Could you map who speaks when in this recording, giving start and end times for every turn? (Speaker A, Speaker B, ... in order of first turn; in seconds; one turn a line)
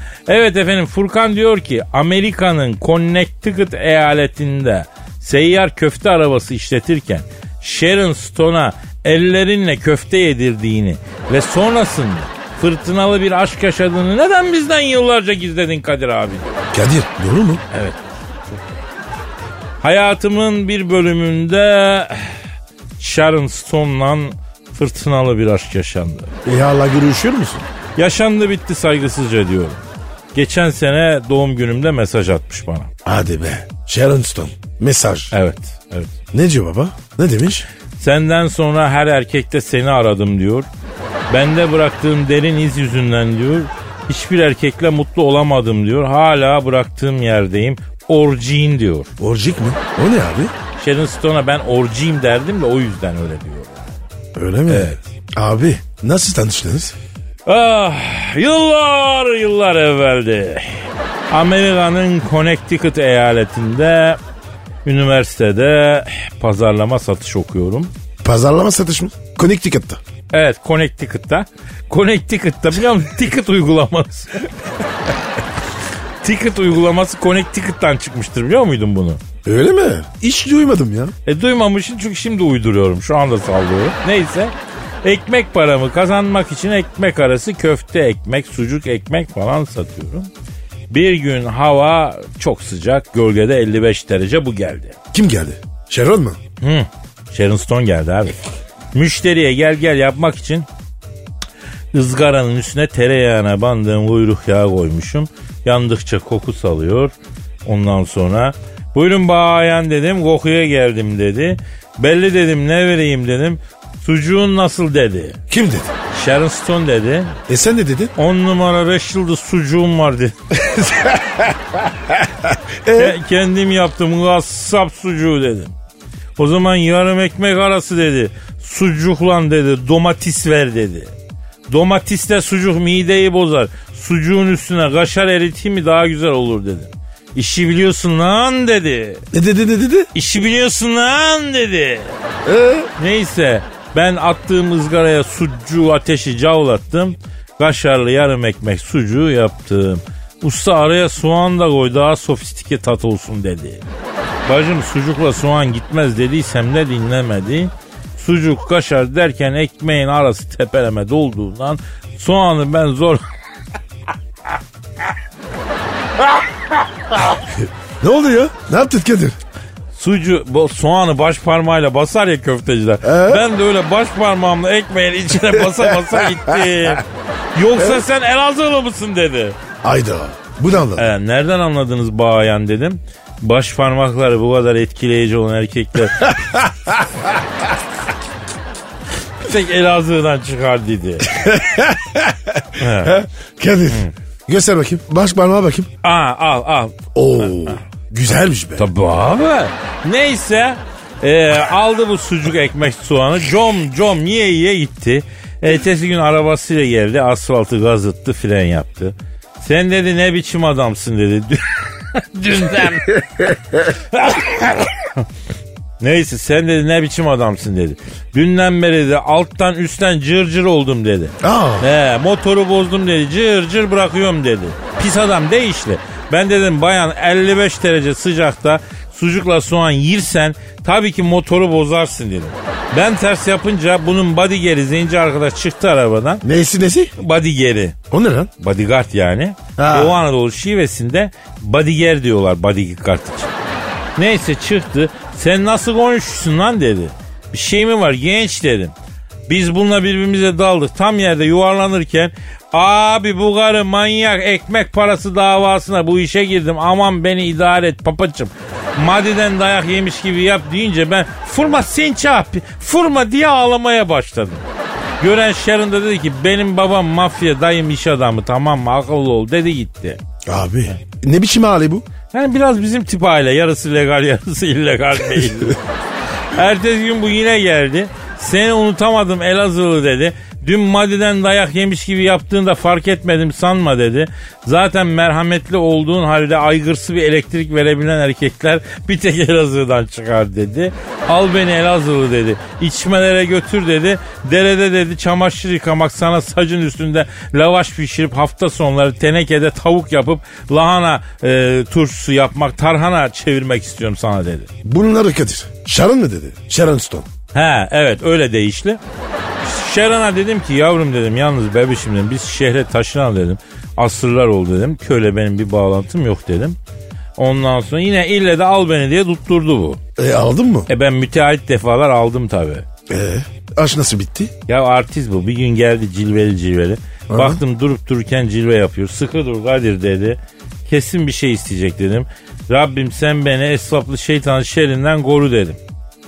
Speaker A: 0.3-16.6
Speaker B: 16.7-17.6
Speaker A: 17.7-18.6
Speaker A: 19.8-22.4
Speaker A: 23.0-26.3
Speaker B: 26.4-27.6
Speaker A: 27.9-29.8
Speaker A: 30.3-32.9
Speaker B: 33.0-35.3
Speaker A: 35.3-36.1
Speaker B: 36.3-37.7
Speaker A: 38.0-40.6
Speaker A: 41.3-49.1
Speaker B: 49.2-50.5
Speaker A: 50.8-54.0
Speaker B: 54.3-57.0
Speaker A: 54.7-55.0
Speaker A: 57.5-64.2
Speaker A: 64.8-67.9
Speaker B: 68.2-70.0
Speaker A: 70.3-74.5
Speaker A: 76.2-79.2
Speaker B: 79.4-81.1
Speaker A: 81.2-90.3
Speaker A: 90.9-95.0
Speaker B: 95.1-96.4
Speaker A: 96.6-98.3
Speaker A: 98.9-100.7
Speaker A: 101.9-107.1
Speaker A: 107.6-115.4
Speaker B: 115.5-115.9
Speaker A: 116.1-117.4
Speaker B: 117.5-118.1
Speaker A: 118.2-120.3
Speaker B: 120.6-121.5
Speaker B: 122.2-123.2
Speaker A: 122.9-125.7
Speaker A: 126.4-131.1
Speaker A: 131.7-139.2
Speaker B: 139.3-140.1
Speaker A: 140.1-142.2
Speaker B: 142.4-142.9
Speaker A: 143.0-153.8
Speaker A: 154.4-163.2
Speaker B: 168.0-169.4
Speaker A: 169.9-179.6
Speaker B: 173.0-173.5
Speaker B: 175.7-176.6
Speaker B: 179.8-181.1
Speaker A: 180.9-186.3
Speaker B: 186.2-187.1
Speaker A: 189.4-191.3
Speaker B: 191.3-195.9
Speaker A: 192.8-193.2
Speaker A: 196.0-197.8
Speaker B: 197.1-198.9
Speaker A: 198.8-213.5
Speaker A: 214.1-215.2
Speaker A: 216.0-236.4
Speaker B: 221.4-221.9
Speaker B: 236.4-237.1
Speaker A: 237.2-238.0
Speaker B: 238.1-238.5
Speaker A: 238.6-243.5
Speaker B: 239.8-240.2
Speaker A: 244.2-248.9
Speaker A: 249.5-264.6
Speaker A: 265.2-270.2
Speaker B: 270.4-272.1
Speaker A: 272.3-275.8
Speaker A: 276.5-304.7
Speaker B: 304.8-307.3
Speaker A: 307.5-309.0
Speaker A: 309.6-316.8
Speaker A: 317.4-320.0
Speaker B: 320.2-320.9
Speaker A: 320.9-322.8
Speaker B: 323.1-324.5
Speaker A: 324.7-335.8
Speaker B: 327.3-327.6